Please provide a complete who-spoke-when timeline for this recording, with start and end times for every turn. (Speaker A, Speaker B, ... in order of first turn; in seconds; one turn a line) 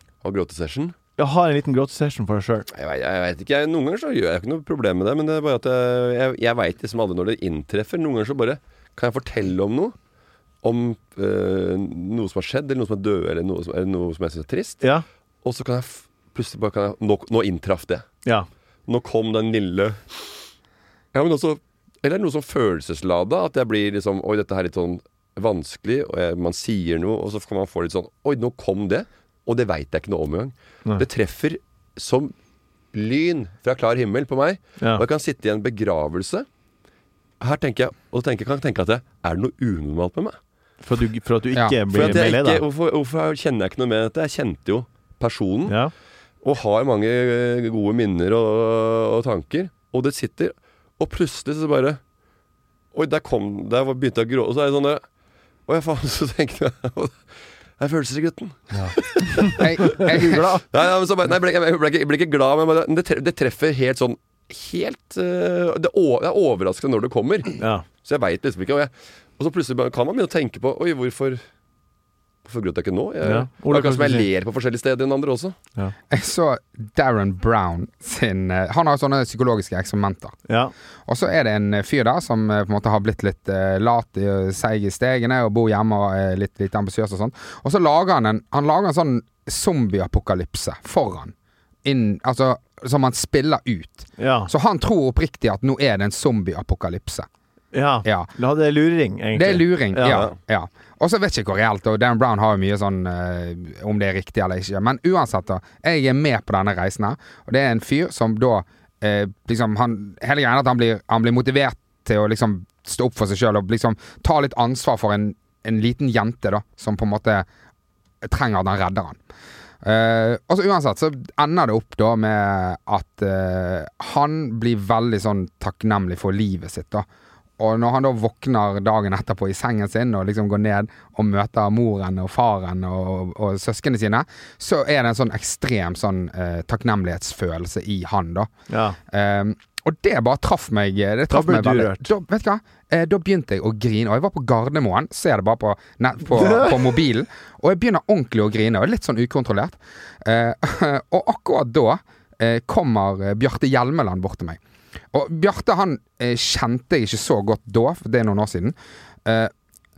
Speaker A: 0.2-0.9
Speaker B: 1.2-2.7
Speaker A: 2.7-9.9
Speaker A: 10.6-14.8
Speaker A: 15.4-18.1
Speaker A: 18.9-20.2
Speaker A: 21.1-32.3
Speaker A: 32.9-36.5
Speaker B: 34.8-35.0
Speaker A: 37.4-40.4
Speaker B: 40.8-42.6
Speaker C: 41.5-42.2
Speaker A: 41.9-45.8
Speaker B: 45.7-45.9
Speaker A: 46.4-52.0
Speaker A: 52.9-55.0
Speaker A: 55.7-57.2
Speaker A: 57.8-60.0
Speaker B: 58.7-60.6
Speaker C: 59.6-60.5
Speaker A: 60.6-71.4
Speaker B: 67.6-67.8
Speaker A: 72.4-75.5
Speaker B: 73.2-74.3
Speaker C: 76.1-80.3
Speaker B: 80.5-80.7
Speaker C: 81.1-91.3
Speaker C: 91.8-97.3
Speaker B: 94.2-94.5
Speaker B: 97.7-100.2
Speaker C: 98.0-98.3
Speaker C: 99.3-117.5
Speaker A: 100.1-100.3
Speaker C: 118.2-119.2
Speaker C: 119.8-127.0
Speaker C: 127.6-138.5
Speaker B: 138.7-139.0
Speaker C: 139.1-154.6
Speaker B: 141.3-142.1
Speaker B: 146.3-147.0
Speaker C: 155.1-159.5